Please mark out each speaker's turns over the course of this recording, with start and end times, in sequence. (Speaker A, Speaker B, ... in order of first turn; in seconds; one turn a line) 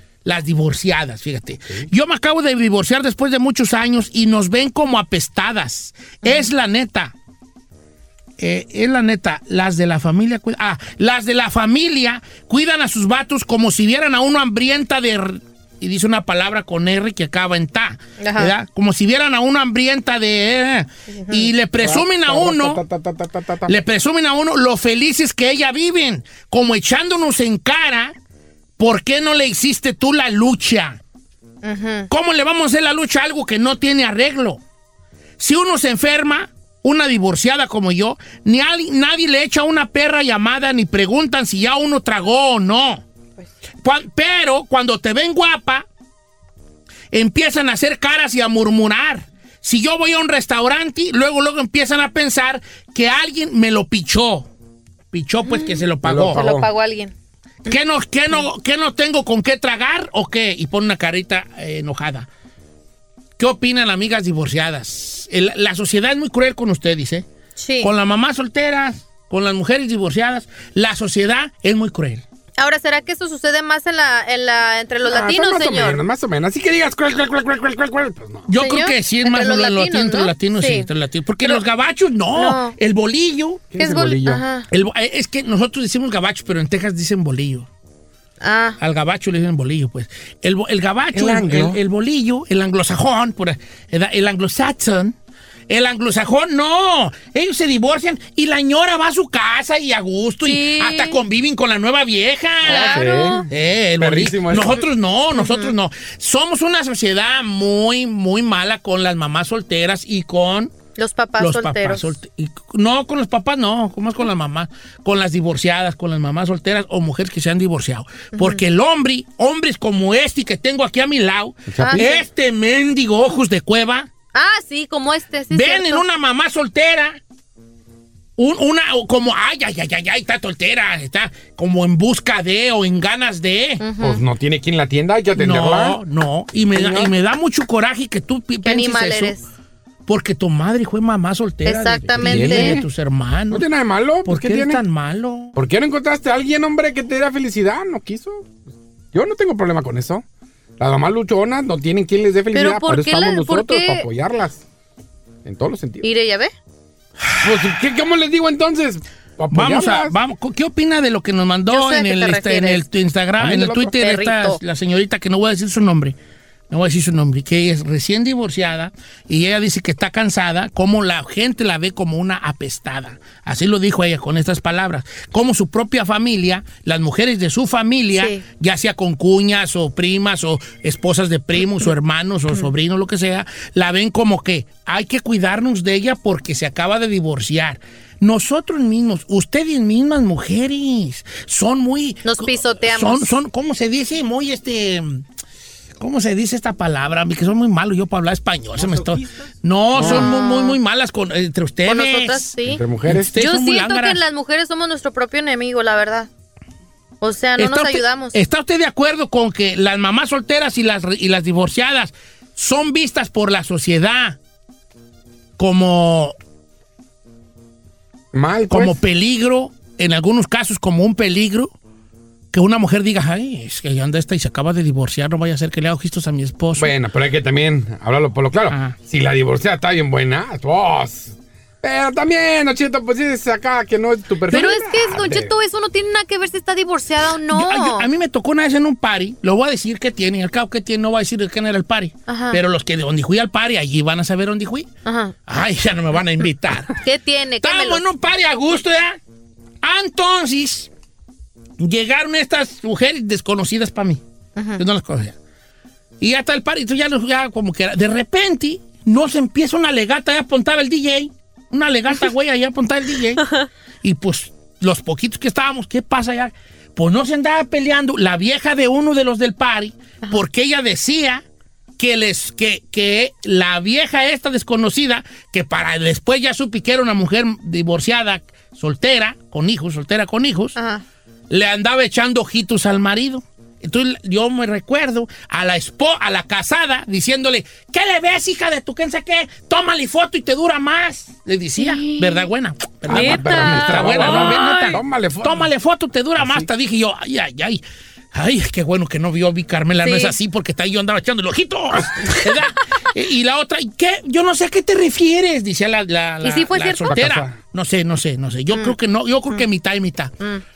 Speaker A: 0.2-7.1
Speaker A: 8.4-22.8
Speaker B: 18.2-18.5
Speaker B: 21.1-21.5
Speaker C: 21.8-23.8
Speaker A: 23.7-28.1
Speaker A: 28.8-31.0
Speaker B: 31.6-32.1
Speaker A: 32.1-34.6
Speaker A: 35.4-43.0
Speaker A: 43.8-45.9
Speaker A: 47.1-54.5
Speaker A: 55.1-56.4
Speaker B: 55.4-55.8
Speaker C: 56.0-56.7
Speaker B: 56.4-57.1
Speaker A: 57.7-62.3
Speaker A: 63.4-67.2
Speaker B: 67.6-67.9
Speaker A: 67.8-72.2
Speaker B: 72.6-76.0
Speaker C: 75.0-78.5
Speaker A: 78.5-83.7
Speaker B: 78.5-80.9
Speaker B: 82.3-82.8
Speaker C: 83.7-84.4
Speaker B: 83.8-84.7
Speaker A: 84.7-87.7
Speaker B: 88.4-88.8
Speaker A: 88.8-95.2
Speaker C: 91.1-91.8
Speaker A: 95.7-110.7
Speaker B: 100.4-101.2
Speaker B: 102.6-103.5
Speaker C: 102.6-104.8
Speaker B: 105.3-105.8
Speaker B: 111.0-112.1
Speaker A: 111.4-124.1
Speaker B: 118.4-118.6
Speaker C: 121.7-122.1
Speaker B: 121.8-122.2
Speaker B: 124.3-126.0
Speaker A: 125.5-127.2
Speaker A: 128.4-133.8
Speaker B: 133.8-134.2
Speaker C: 134.0-136.0
Speaker A: 135.4-139.3
Speaker C: 136.7-137.1
Speaker B: 138.6-139.5
Speaker A: 140.1-143.7
Speaker B: 141.6-142.8
Speaker C: 142.1-142.9
Speaker C: 143.5-144.8
Speaker A: 144.3-145.6
Speaker C: 145.6-150.2
Speaker C: 150.8-154.6
Speaker B: 152.5-154.1
Speaker C: 155.4-156.1
Speaker B: 156.0-156.5
Speaker C: 157.4-160.2
Speaker A: 159.5-166.2
Speaker B: 161.7-162.8
Speaker C: 163.4-163.9
Speaker B: 164.0-164.6
Speaker A: 166.7-195.2
Speaker B: 178.2-178.4
Speaker B: 192.2-193.3
Speaker A: 196.0-202.6
Speaker C: 199.9-200.3
Speaker B: 200.0-200.8
Speaker B: 201.9-202.8
Speaker C: 202.7-203.3
Speaker A: 203.1-204.2
Speaker B: 203.3-206.3
Speaker B: 207.2-208.4
Speaker A: 207.6-214.4
Speaker A: 215.6-216.3
Speaker C: 218.3-219.0
Speaker A: 218.7-221.7
Speaker A: 222.5-226.9
Speaker C: 226.8-235.5
Speaker A: 228.7-229.0
Speaker B: 234.5-238.1
Speaker A: 237.5-244.9
Speaker B: 242.3-242.6
Speaker B: 245.1-245.3
Speaker A: 245.5-247.0
Speaker B: 247.0-248.0
Speaker A: 247.6-249.2
Speaker A: 249.8-250.9
Speaker A: 251.8-254.2
Speaker B: 254.6-254.8
Speaker A: 254.8-255.3
Speaker A: 256.2-263.5
Speaker A: 264.0-271.4
Speaker A: 272.0-280.8
Speaker B: 280.8-281.0
Speaker A: 281.5-297.8
Speaker B: 291.8-292.5
Speaker C: 293.1-295.7
Speaker B: 293.1-295.0
Speaker C: 296.4-296.7
Speaker A: 298.3-310.3
Speaker B: 300.0-300.4
Speaker B: 306.4-307.1
Speaker C: 307.1-307.6